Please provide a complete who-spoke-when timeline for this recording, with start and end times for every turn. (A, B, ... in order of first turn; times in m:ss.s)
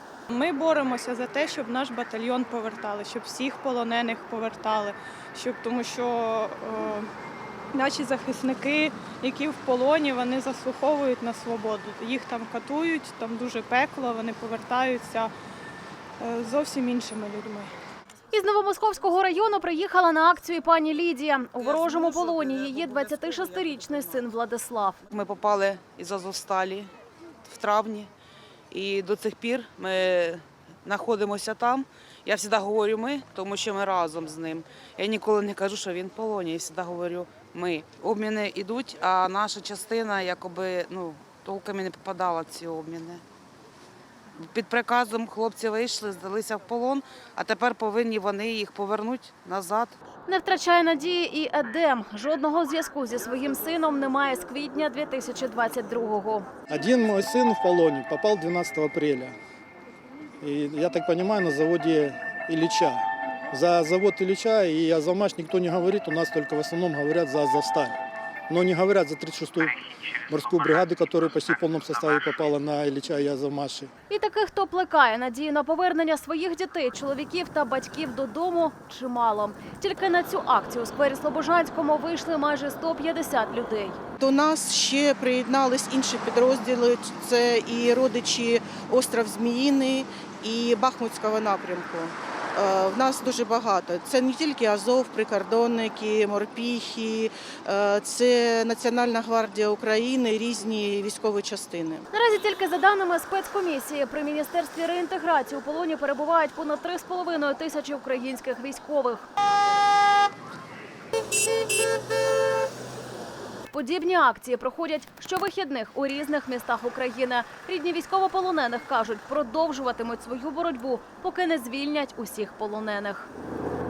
0:00.3-0:07.1 A
0:07.7-0:15.3 A
0:16.2-0:17.7 A
0:18.3-0:25.0 B
0:21.6-0:24.1 C
0:25.1-0:26.9 C
0:27.4-0:28.1 C
0:28.7-0:43.2 C
0:44.4-0:50.0 C
0:50.3-0:56.5 B
0:56.7-0:59.4 D
1:00.4-1:08.0 D
1:08.5-1:13.9 D
1:14.1-1:24.0 B
1:24.2-1:42.1 E
1:42.1-1:49.3 B
1:53.7-2:03.3 B